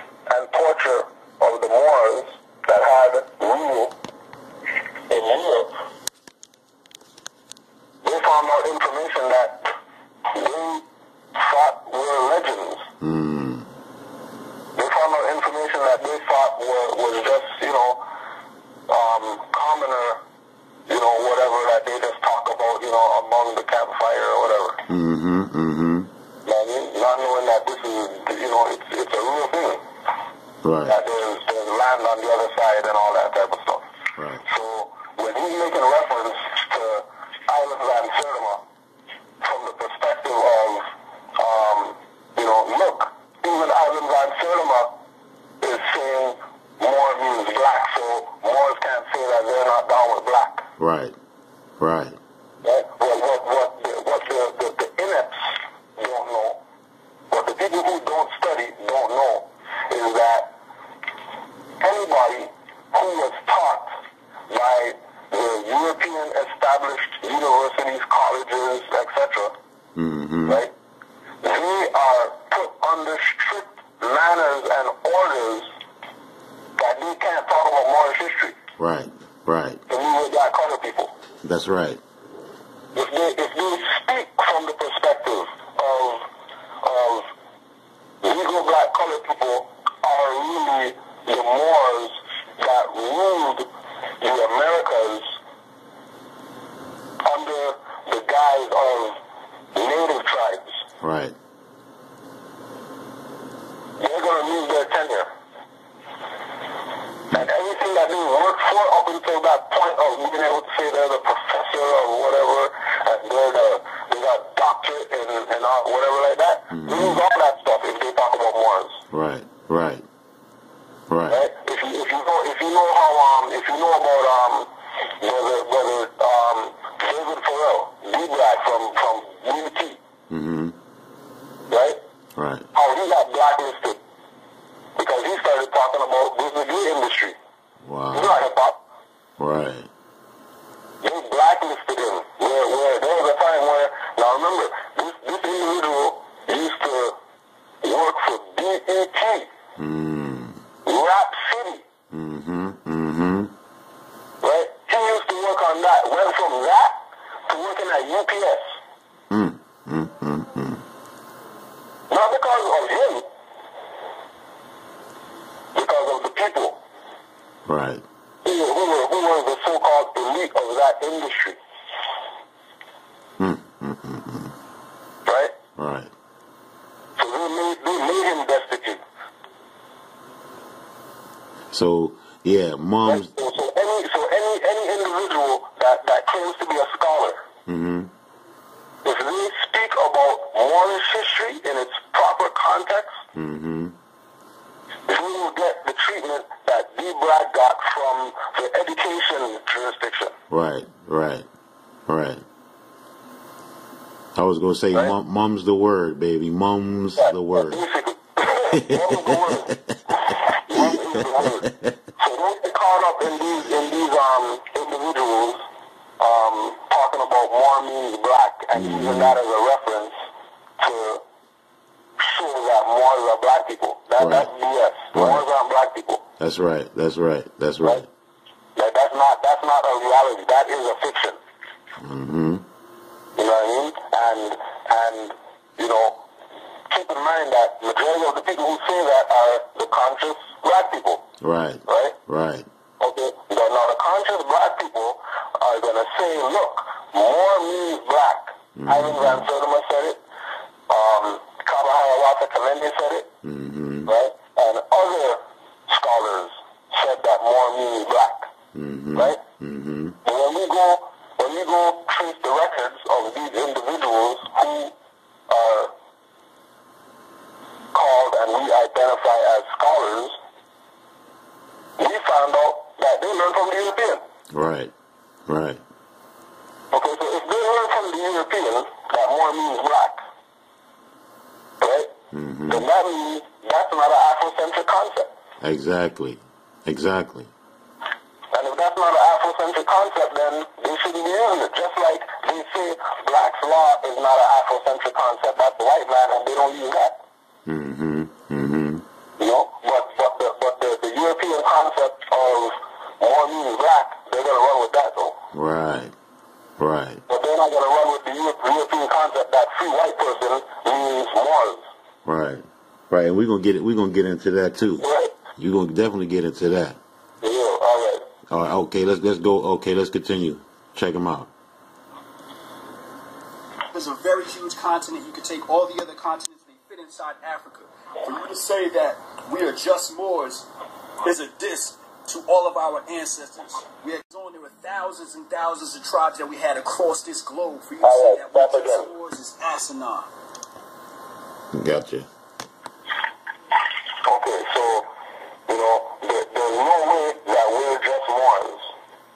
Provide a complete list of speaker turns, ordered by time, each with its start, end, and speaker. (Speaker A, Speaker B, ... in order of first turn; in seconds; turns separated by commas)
Speaker A: 0.3-4.0, Speaker A: 5.1-5.7, Speaker A: 8.0-9.7, Speaker A: 10.3-12.9, Speaker B: 13.0-13.7, Speaker A: 14.8-18.0, Speaker A: 18.9-20.2, Speaker A: 20.9-24.8, Speaker B: 24.9-26.1, Speaker A: 26.4-29.8, Speaker B: 30.6-31.0, Speaker A: 30.9-33.9, Speaker B: 34.2-34.4, Speaker A: 34.4-38.6, Speaker A: 39.4-40.9, Speaker A: 41.4-44.9, Speaker A: 45.6-50.7, Speaker B: 50.8-51.2, Speaker B: 51.8-52.2, Speaker A: 52.6-56.6, Speaker A: 57.3-60.5, Speaker A: 61.8-63.9, Speaker A: 64.5-69.5, Speaker B: 70.0-70.6, Speaker A: 70.5-70.7, Speaker A: 71.4-75.7, Speaker A: 76.8-78.6, Speaker B: 78.8-79.8, Speaker A: 79.9-81.1, Speaker B: 81.4-82.0, Speaker A: 83.0-86.3, Speaker A: 86.8-87.3, Speaker A: 88.2-93.7, Speaker A: 94.2-95.3, Speaker A: 97.2-99.2, Speaker A: 99.8-100.8, Speaker B: 101.0-101.4, Speaker A: 104.0-105.3, Speaker A: 107.3-119.0, Speaker B: 116.7-117.2, Speaker B: 119.1-120.0, Speaker B: 121.1-121.4, Speaker A: 121.3-130.0, Speaker B: 130.3-130.8, Speaker A: 131.7-132.0, Speaker B: 132.4-132.7, Speaker A: 132.7-134.0, Speaker A: 135.0-137.4, Speaker B: 137.8-138.4, Speaker A: 138.1-138.8, Speaker B: 139.4-139.9, Speaker A: 141.0-147.2, Speaker A: 147.8-149.5, Speaker B: 149.8-150.6, Speaker A: 150.8-151.8, Speaker B: 152.1-153.5, Speaker A: 154.4-158.7, Speaker B: 159.3-160.8, Speaker A: 162.1-163.3, Speaker A: 165.8-166.8, Speaker B: 167.7-168.0, Speaker A: 168.4-171.6, Speaker B: 173.4-174.5, Speaker A: 175.3-175.5, Speaker B: 175.8-176.1, Speaker A: 177.2-179.0, Speaker B: 181.7-183.3, Speaker A: 183.1-187.4, Speaker B: 187.7-188.1, Speaker A: 189.0-193.2, Speaker B: 193.3-193.9, Speaker A: 195.1-200.3, Speaker B: 200.5-201.5, Speaker B: 202.1-202.4, Speaker B: 204.3-207.8, Speaker A: 207.2-215.6, Speaker B: 208.8-212.0, Speaker A: 216.2-220.1, Speaker B: 218.7-219.4, Speaker A: 220.8-221.2, Speaker A: 222.2-226.2, Speaker B: 224.2-224.5, Speaker B: 225.1-225.4, Speaker B: 226.4-228.1, Speaker A: 228.8-231.4, Speaker B: 232.0-232.7, Speaker A: 233.4-236.2, Speaker A: 236.9-241.2, Speaker B: 241.4-242.7, Speaker A: 241.9-242.2, Speaker A: 243.0-250.2, Speaker B: 248.8-249.5, Speaker A: 250.9-253.3, Speaker B: 253.4-254.1, Speaker A: 254.1-258.5, Speaker B: 258.7-260.2, Speaker A: 259.1-259.4, Speaker A: 260.2-264.9, Speaker A: 265.5-265.9, Speaker A: 267.9-270.4, Speaker A: 272.0-274.2, Speaker B: 274.5-274.9, Speaker B: 275.5-275.8, Speaker A: 276.9-280.2, Speaker A: 281.8-282.1, Speaker B: 282.3-282.9, Speaker A: 282.7-285.3, Speaker B: 285.6-287.5, Speaker A: 288.5-297.2, Speaker B: 297.7-299.0, Speaker A: 299.4-305.4, Speaker B: 305.5-306.1, Speaker B: 306.8-307.2, Speaker A: 307.3-311.8, Speaker B: 312.2-317.0, Speaker A: 315.0-315.4, Speaker A: 317.4-318.2, Speaker B: 318.5-321.5, Speaker C: 323.9-330.7, Speaker C: 331.2-340.3, Speaker A: 338.0-339.1, Speaker B: 341.7-342.3, Speaker A: 344.2-345.1, Speaker A: 345.7-348.9